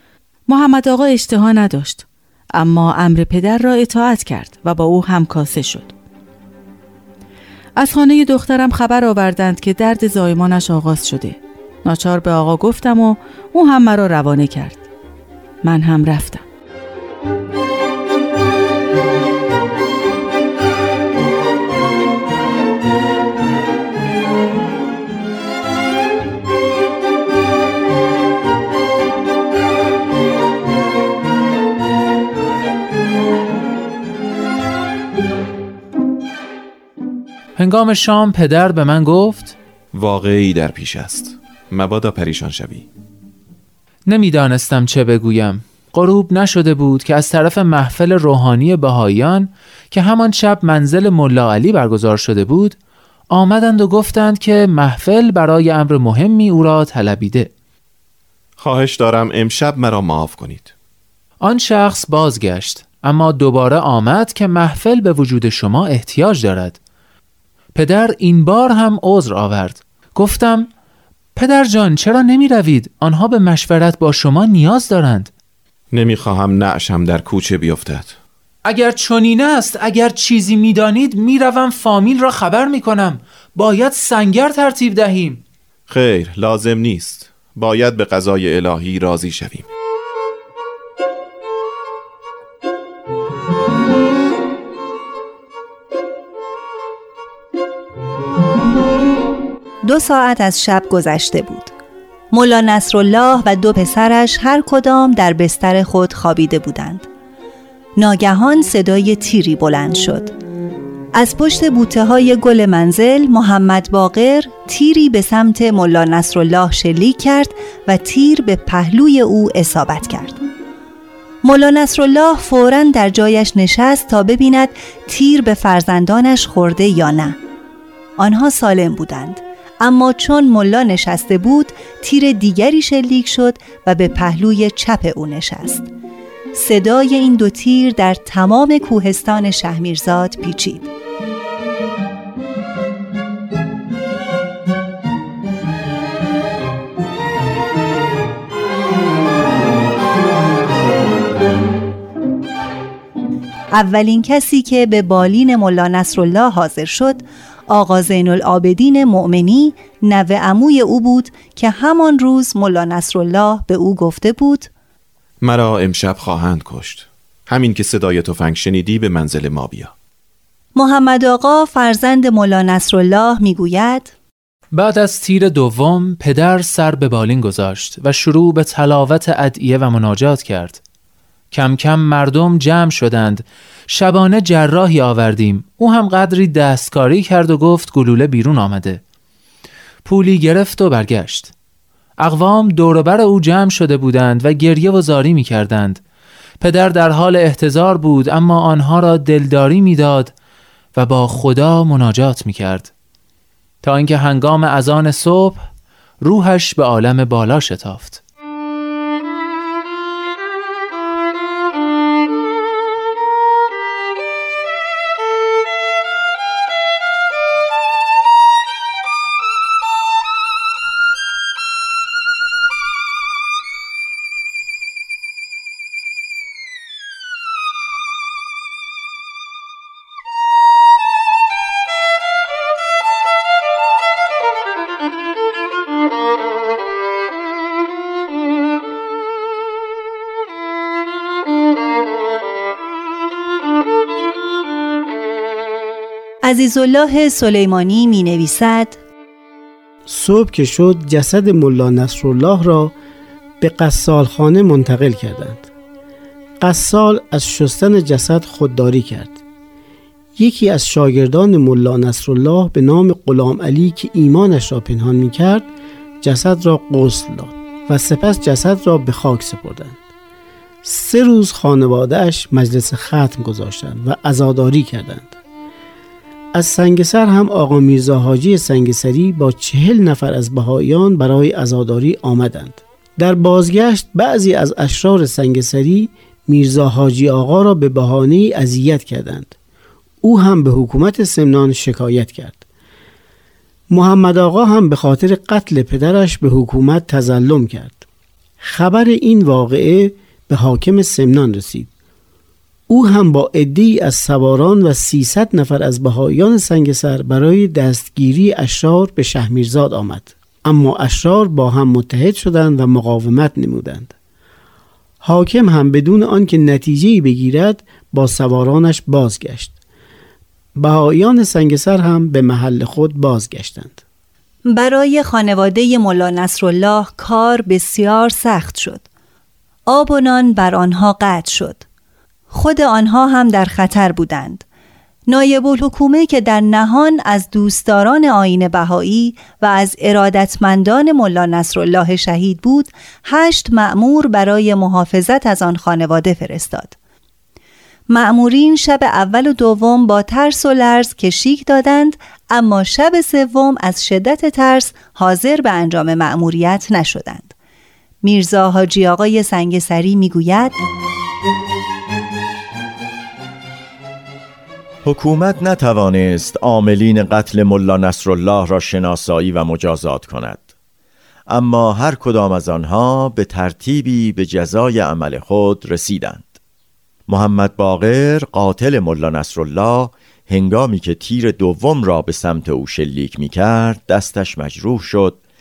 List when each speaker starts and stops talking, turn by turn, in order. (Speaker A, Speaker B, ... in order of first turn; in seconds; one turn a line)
Speaker A: 0.5-5.9
Speaker A: 7.8-14.8
Speaker A: 15.6-16.4
Speaker B: 37.5-39.5
Speaker C: 39.9-42.9
Speaker B: 44.1-52.8
Speaker B: 53.3-57.5
Speaker C: 58.6-60.7
Speaker B: 61.4-66.8
Speaker B: 67.7-70.7
Speaker B: 71.3-75.3
Speaker C: 75.9-78.2
Speaker B: 78.6-85.4
Speaker C: 85.9-89.7
Speaker D: 99.8-101.7
Speaker D: 102.3-107.1
Speaker D: 108.0-110.3
Speaker D: 111.1-120.4
Speaker D: 121.4-127.4
Speaker D: 128.2-135.9
Speaker D: 136.5-140.9
Speaker D: 153.7-164.7
Speaker C: 165.4-169.9
Speaker D: 170.7-174.1
Speaker B: 174.7-180.8
Speaker B: 181.5-189.0
Speaker B: 190.0-191.5
Speaker B: 192.2-196.0
Speaker B: 196.6-200.3
Speaker B: 200.9-202.9
Speaker B: 203.8-205.7
Speaker B: 206.2-208.2
Speaker D: 246.4-249.0
Speaker E: 250.1-252.9
Speaker E: 253.6-255.7
Speaker E: 256.6-259.4
Speaker E: 260.4-265.6
Speaker E: 266.2-270.0
Speaker E: 270.8-275.3
Speaker E: 276.5-289.5
Speaker E: 290.2-292.6
Speaker E: 293.9-298.0
Speaker E: 298.6-301.9
Speaker E: 302.9-314.1
Speaker E: 315.2-319.7
Speaker E: 320.8-324.0
Speaker D: 324.7-329.0
Speaker D: 329.9-331.8
Speaker D: 332.5-334.6
Speaker D: 335.3-346.9
Speaker D: 348.1-357.5
Speaker D: 358.2-360.8
Speaker F: 365.0-370.6
Speaker F: 371.5-376.5
Speaker F: 377.3-385.4